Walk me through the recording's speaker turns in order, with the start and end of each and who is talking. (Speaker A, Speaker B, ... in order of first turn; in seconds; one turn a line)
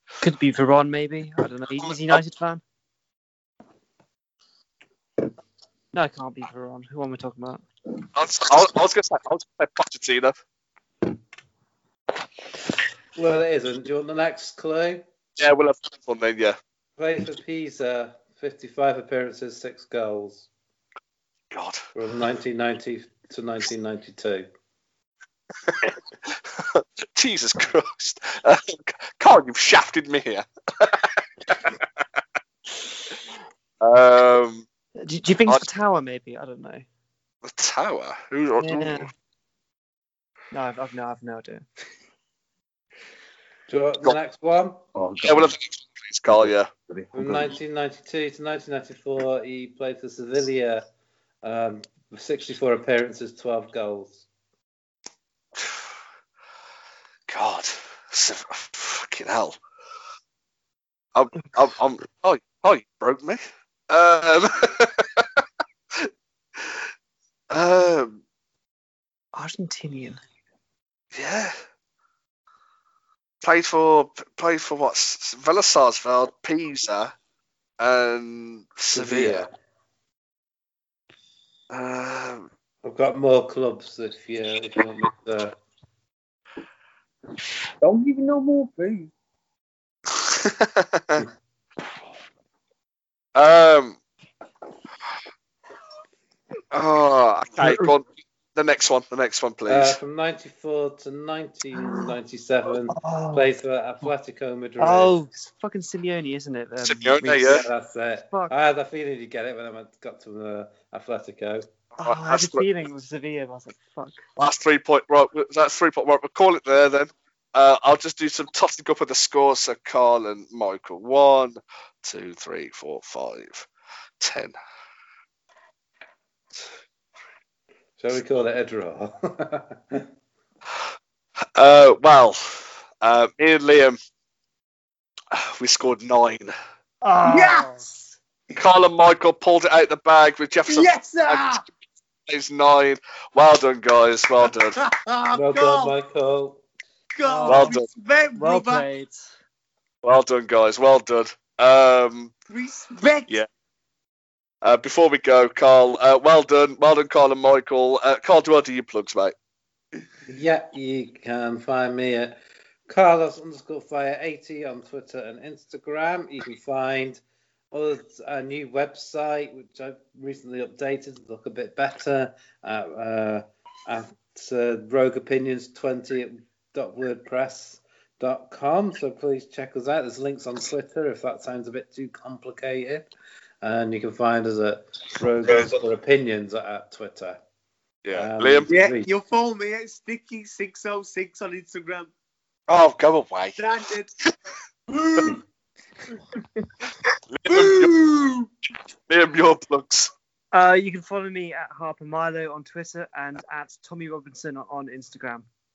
Speaker A: 0.2-2.6
Speaker B: 1.8-2.2
Speaker A: 5.9-7.6
Speaker B: 8.2-10.3
Speaker C: 13.2-15.0
Speaker B: 15.4-16.6
Speaker C: 17.0-20.5
Speaker B: 21.5-21.8
Speaker C: 21.9-24.5
Speaker B: 25.7-25.9
Speaker B: 26.5-31.7
Speaker B: 33.8-34.6
Speaker A: 35.0-36.9
Speaker B: 37.4-39.0
Speaker A: 38.6-39.1
Speaker A: 40.5-41.6
Speaker C: 43.7-44.9
Speaker D: 45.0-45.5
Speaker B: 45.2-46.7
Speaker D: 46.3-47.5
Speaker C: 47.1-50.9
Speaker C: 51.4-54.2
Speaker B: 57.3-59.6
Speaker B: 61.1-65.4
Speaker B: 66.0-66.8
Speaker B: 67.5-68.2
Speaker A: 69.3-70.2
Speaker B: 71.1-71.5
Speaker B: 73.4-77.1
Speaker B: 77.8-79.5
Speaker C: 78.9-79.5
Speaker B: 81.7-82.5
Speaker C: 82.8-85.6
Speaker D: 87.8-89.1
Speaker B: 90.2-91.3
Speaker B: 93.3-94.0
Speaker B: 96.7-100.0
Speaker C: 99.7-105.2
Speaker A: 102.9-103.5
Speaker A: 104.8-107.6
Speaker B: 106.8-107.7
Speaker C: 107.3-111.7
Speaker A: 112.0-114.2
Speaker B: 112.0-112.6
Speaker B: 114.4-123.7
Speaker B: 124.2-124.5
Speaker C: 128.0-130.1
Speaker B: 131.6-134.0
Speaker B: 135.3-136.5
Speaker A: 137.0-137.9
Speaker D: 137.2-138.2
Speaker B: 138.6-141.6
Speaker D: 140.7-141.6
Speaker B: 142.3-144.8
Speaker D: 144.8-145.9
Speaker C: 145.3-146.6
Speaker D: 147.2-148.8
Speaker A: 147.2-147.8
Speaker B: 147.4-147.9
Speaker A: 148.4-149.3
Speaker B: 150.0-152.3
Speaker D: 152.5-153.3
Speaker B: 154.6-159.3
Speaker C: 160.3-183.1
Speaker C: 183.6-187.4
Speaker B: 188.0-188.7
Speaker C: 188.1-189.1
Speaker D: 188.7-192.1
Speaker B: 192.7-193.6
Speaker D: 193.6-194.1
Speaker D: 194.9-195.4
Speaker B: 197.3-198.0
Speaker D: 197.5-198.5
Speaker B: 199.1-200.1
Speaker A: 200.5-205.5